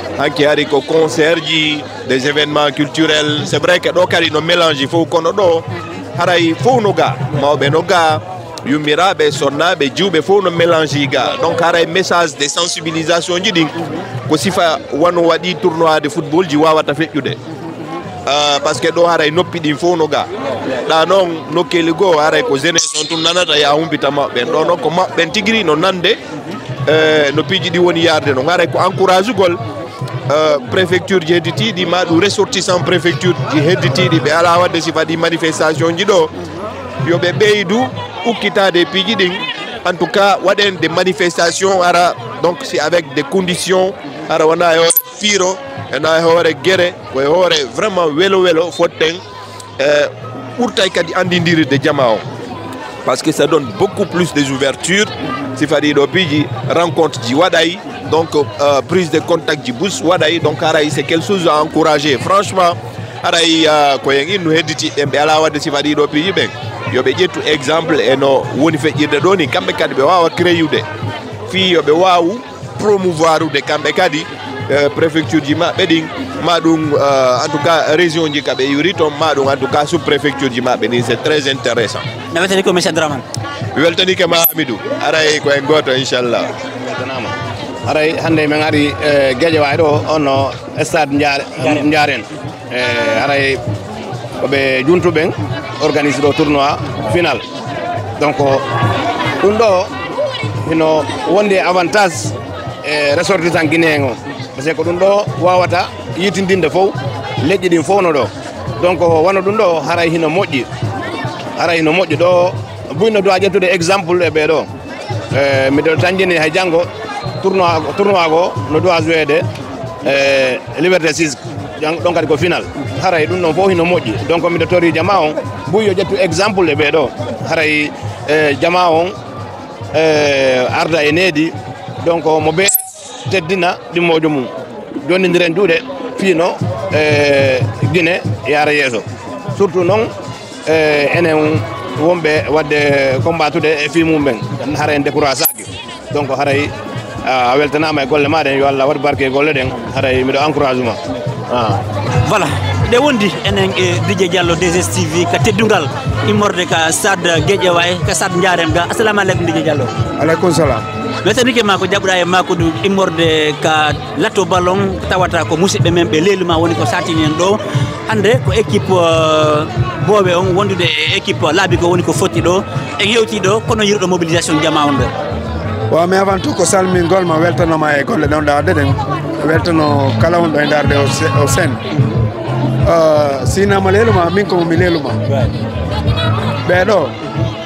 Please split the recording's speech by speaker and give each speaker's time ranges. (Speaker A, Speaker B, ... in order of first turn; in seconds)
Speaker A: 0.2-13.8, 14.3-17.4, 18.3-20.3, 20.9-26.2, 26.9-29.6, 30.3-36.3, 37.0-49.2, 49.8-52.3, 53.0-70.9, 71.5-82.1, 83.8-86.5
Speaker B: 82.3-83.2, 152.2-159.9, 161.2-175.1
Speaker C: 86.8-87.4, 87.9-93.6, 94.4-97.5, 98.2-98.7, 99.4-99.9, 100.6-110.7, 111.6-114.7, 115.3-116.9, 117.4-119.5, 120.0-129.2, 129.9-140.1, 140.7-146.7, 147.2-151.8
Speaker D: 160.2-160.9, 175.9-181.8, 182.8-185.2, 186.7-187.2